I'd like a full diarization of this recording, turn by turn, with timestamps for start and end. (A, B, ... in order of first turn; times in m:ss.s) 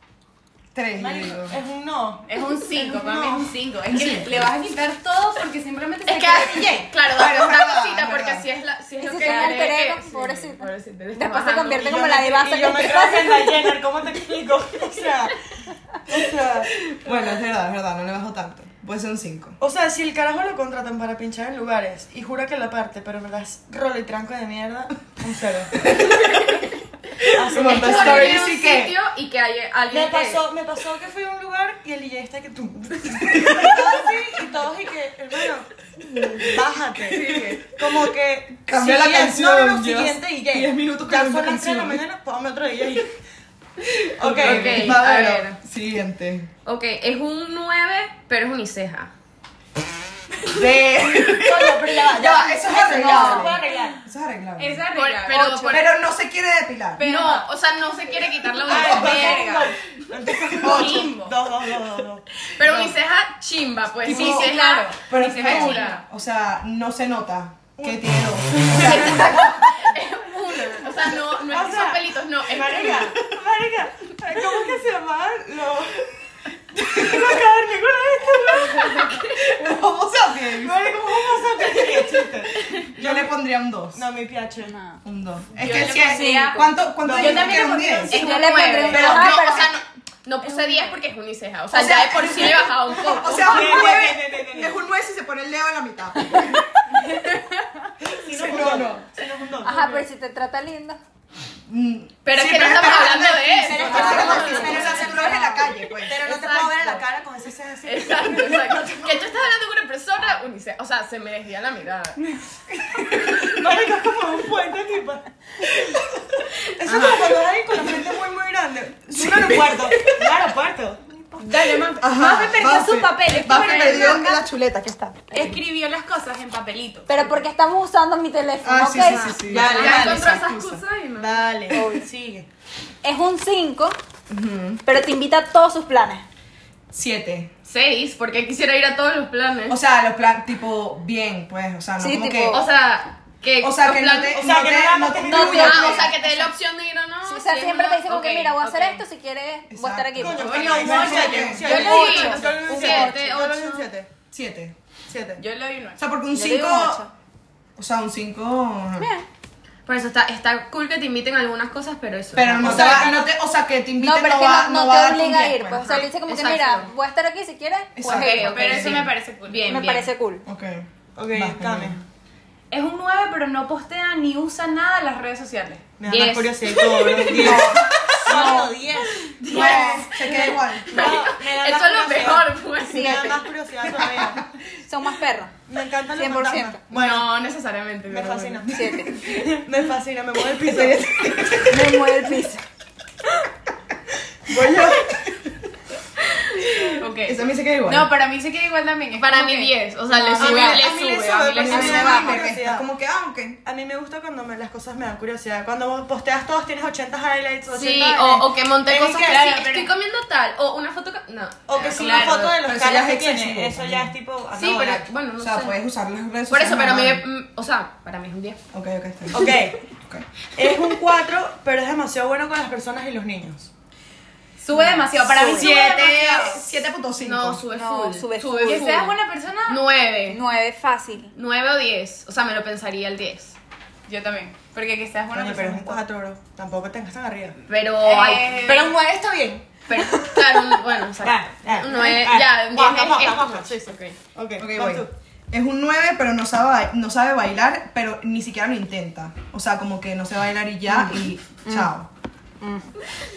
0:00.7-0:01.6 A
0:01.0-0:03.5 B
0:02.3-0:06.9 C
0:03.9-0:04.4 A
0:06.1-0:11.9 D
0:07.1-0:08.5 A
0:09.0-0:13.6 E
0:09.2-0:09.7 C
0:11.8-0:15.4 B
0:16.1-0:16.7 B
0:16.8-0:19.6 A
0:19.6-0:25.9 B
0:25.8-0:26.6 A
0:27.2-0:28.5 B
0:27.4-0:29.0 A
0:27.6-0:30.4 D
0:29.9-0:35.7 B
0:33.3-0:34.1 A
0:36.1-0:36.6 A
0:36.3-0:43.1 B
0:37.1-0:37.6 C
0:37.2-0:37.6 D
0:37.8-0:42.0 A
0:43.8-0:46.5 A
0:44.2-0:45.0 B
0:44.4-0:45.6 D
0:46.6-0:49.1 D
0:50.5-0:54.8 A
0:51.0-0:54.0 B
0:52.8-0:53.6 E
0:54.6-0:55.6 C
0:54.9-0:56.0 D
0:55.3-0:55.8 E
0:55.7-0:57.0 A
0:57.0-0:57.5 C
0:57.0-0:59.6 D
0:58.6-0:59.7 C
0:58.6-1:03.0 B
1:00.3-1:01.1 A
1:00.6-1:01.4 C
1:02.5-1:06.0 D
1:04.1-1:04.5 B
1:04.1-1:06.0 C
1:05.1-1:09.6 A
1:07.8-1:09.3 B
1:08.7-1:13.2 D
1:11.5-1:16.1 B
1:16.7-1:17.4 A
1:16.8-1:19.3 B
1:18.3-1:22.3 A
1:20.5-1:23.3 B
1:23.0-1:24.0 A
1:23.9-1:24.8 B
1:24.6-1:25.0 E
1:25.0-1:28.2 A
1:25.6-1:29.3 C
1:26.0-1:26.7 E
1:27.0-1:27.7 B
1:28.1-1:29.7 E
1:28.1-1:34.0 D
1:28.9-1:29.6 A
1:30.4-1:31.0 C
1:31.7-1:36.7 A
1:33.1-1:34.8 B
1:37.0-1:37.8 C
1:38.0-1:40.1 B
1:38.2-1:39.0 A
1:39.6-1:41.0 E
1:41.7-1:46.2 A
1:42.2-1:45.2 D
1:43.6-1:45.3 B
1:43.8-1:45.7 E
1:43.8-1:45.4 C
1:46.0-1:48.9 B
1:46.2-1:47.1 D
1:47.8-1:52.2 D
1:53.1-1:53.4 A
1:53.3-1:56.0 B
1:56.8-2:01.8 B
1:56.9-1:57.3 A
1:56.9-1:57.2 D
1:59.1-2:00.4 A
2:01.4-2:04.5 C
2:02.0-2:05.5 A
2:05.3-2:07.2 C
2:07.1-2:09.8 E
2:08.6-2:10.8 A
2:08.9-2:11.7 D
2:09.4-2:10.5 B
2:11.2-2:12.5 B
2:11.7-2:12.0 E
2:13.0-2:14.0 E
2:14.3-2:14.8 A
2:14.8-2:16.2 E
2:16.9-2:17.5 A
2:17.6-2:19.8 D
2:19.7-2:22.6 A
2:22.0-2:22.6 E
2:22.5-2:24.7 D
2:23.6-2:26.1 A
2:24.3-2:26.1 B
2:25.3-2:26.3 E
2:25.3-2:29.0 D
2:27.2-2:33.2 E
2:29.7-2:31.9 A
2:30.2-2:34.1 B
2:30.3-2:33.9 D
2:31.0-2:32.2 C
2:34.3-2:34.8 A
2:35.1-2:35.4 B
2:35.4-2:36.0 C
2:36.0-2:37.0 A
2:36.3-2:37.1 E
2:37.8-2:39.1 A
2:39.0-2:39.3 E
2:39.9-2:43.1 D
2:42.3-2:45.8 A
2:42.6-2:43.3 B
2:42.6-2:43.2 C
2:44.0-2:48.9 E
2:45.8-2:46.9 D
2:48.0-2:49.0 A
2:48.0-2:50.1 D
2:48.4-2:49.9 C
2:49.7-2:50.5 E
2:50.4-2:52.0 A
2:51.2-2:52.0 B
2:52.7-2:55.8 C
2:56.0-3:04.6 B
2:56.1-2:57.6 D
2:57.4-2:58.7 E
2:59.3-3:03.4 D
2:59.4-3:01.2 A
2:59.5-2:59.9 E
3:02.9-3:03.4 E
3:04.8-3:05.5 E
3:05.7-3:07.3 B
3:06.1-3:06.8 E
3:06.9-3:08.7 D
3:08.1-3:11.1 B
3:08.7-3:09.1 E
3:08.9-3:09.5 A
3:10.5-3:12.1 A
3:11.7-3:12.6 E
3:14.5-3:15.6 A
3:14.5-3:15.0 B
3:16.6-3:18.1 A
3:17.0-3:19.8 C
3:19.2-3:22.2 D
3:20.4-3:22.9 B
3:20.4-3:20.9 A
3:21.6-3:23.6 A
3:21.7-3:22.4 E
3:23.6-3:29.5 B
3:27.7-3:32.7 D
3:29.2-3:29.9 C
3:31.7-3:35.1 B
3:31.8-3:32.5 C
3:32.6-3:34.1 A
3:34.5-3:35.8 D
3:35.4-3:37.2 A
3:36.5-3:38.6 D
3:38.7-3:40.3 A
3:39.3-3:39.8 B
3:40.6-3:43.7 B
3:44.6-3:46.6 C
3:44.8-3:47.6 A
3:45.3-3:45.8 E
3:47.2-3:50.4 D
3:47.7-3:49.0 E
3:48.6-3:49.8 C
3:50.3-3:51.3 E
3:51.3-3:53.6 D
3:54.1-3:56.0 C
3:55.3-3:57.6 B
3:57.7-3:58.7 D
3:58.0-3:59.0 C
3:58.6-4:00.4 B
3:59.9-4:04.2 D
4:01.2-4:05.1 B
4:04.6-4:12.1 A
4:11.7-4:11.9 E
4:12.6-4:13.0 E